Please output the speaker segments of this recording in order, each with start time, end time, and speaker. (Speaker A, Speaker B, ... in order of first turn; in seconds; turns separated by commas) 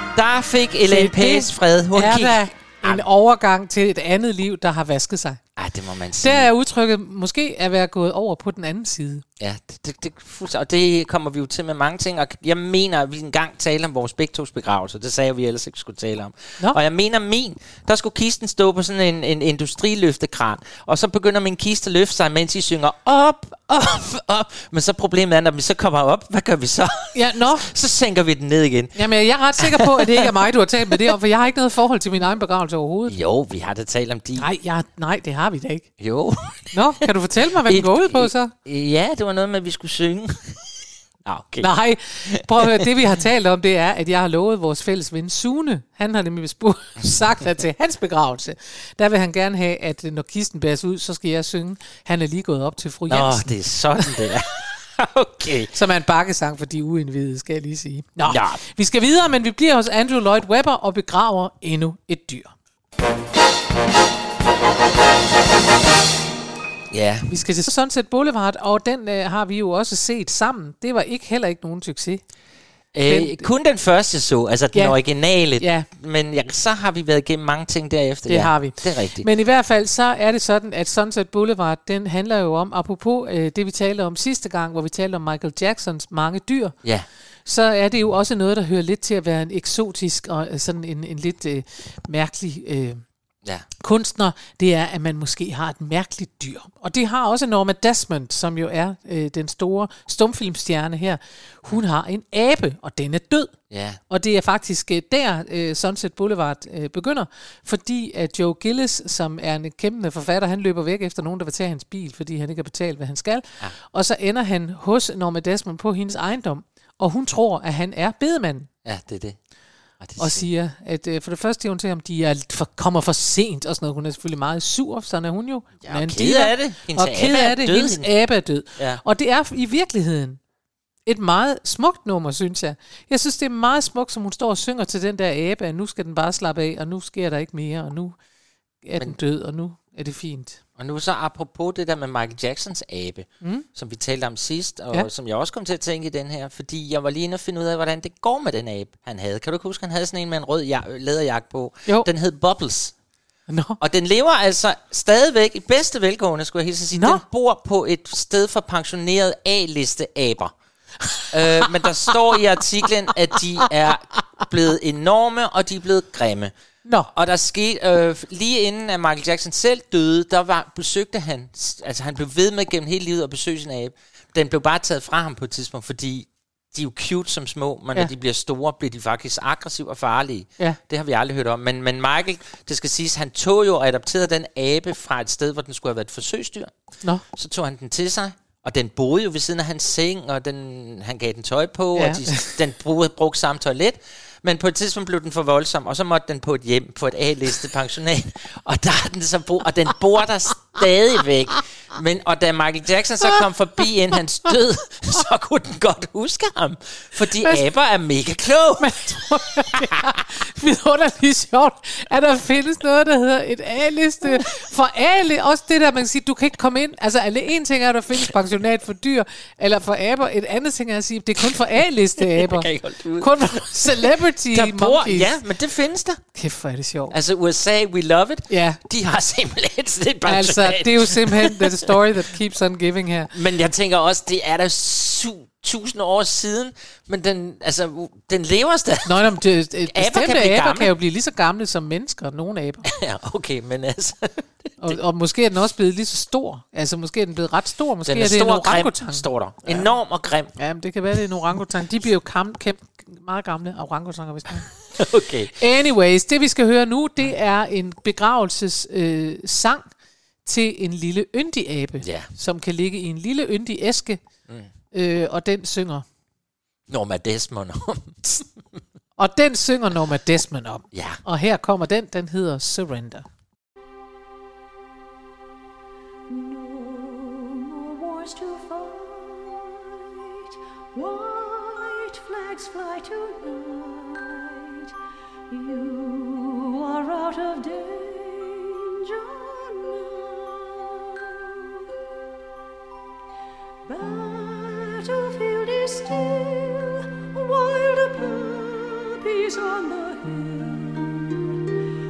Speaker A: 0.1-3.0, Speaker B: 0.9-5.4, Speaker A: 5.5-6.5, Speaker B: 6.2-9.2, Speaker A: 9.4-29.0, Speaker B: 27.1-27.7, Speaker B: 28.9-33.1, Speaker A: 29.6-30.3, Speaker A: 33.1-34.5, Speaker B: 34.4-35.9, Speaker A: 36.0-36.8, Speaker B: 36.7-38.5, Speaker A: 37.6-41.7, Speaker B: 41.6-54.1, Speaker A: 42.2-42.8, Speaker A: 53.1-55.7, Speaker B: 55.7-62.5, Speaker A: 58.3-58.6, Speaker A: 66.9-67.3, Speaker B: 67.3-72.2, Speaker A: 72.9-79.3, Speaker B: 73.1-73.5, Speaker B: 75.6-75.8, Speaker B: 78.3-86.8, Speaker B: 87.5-93.0, Speaker B: 93.8-103.5, Speaker A: 103.7-104.0, Speaker B: 104.1-118.7, Speaker A: 118.8-119.4, Speaker A: 120.0-120.5, Speaker B: 120.2-130.4, Speaker A: 125.8-128.1, Speaker B: 131.1-138.2, Speaker B: 138.8-140.6, Speaker A: 140.8-152.9, Speaker B: 153.5-153.8, Speaker A: 153.8-160.5, Speaker B: 156.9-157.2, Speaker B: 161.1-162.1, Speaker A: 161.3-166.5, Speaker B: 166.8-167.1, Speaker A: 167.1-186.8, Speaker A: 187.3-209.2, Speaker B: 191.9-192.5, Speaker B: 207.4-207.7, Speaker B: 208.8-225.3, Speaker A: 222.2-226.2, Speaker B: 226.3-227.1, Speaker A: 227.1-231.9, Speaker B: 228.5-228.8, Speaker B: 230.2-233.3, Speaker A: 233.3-239.3, Speaker B: 239.1-242.9, Speaker A: 239.9-240.9, Speaker A: 242.8-245.0, Speaker B: 244.8-249.9, Speaker A: 248.0-250.5, Speaker B: 250.6-254.7, Speaker A: 254.9-255.5, Speaker B: 255.6-259.9, Speaker B: 260.4-264.2, Speaker A: 262.0-262.3, Speaker B: 264.9-266.0, Speaker A: 266.9-268.5, Speaker B: 269.2-273.2, Speaker A: 270.9-271.2, Speaker C: 276.3-284.9, Speaker C: 285.5-291.9, Speaker C: 293.9-301.5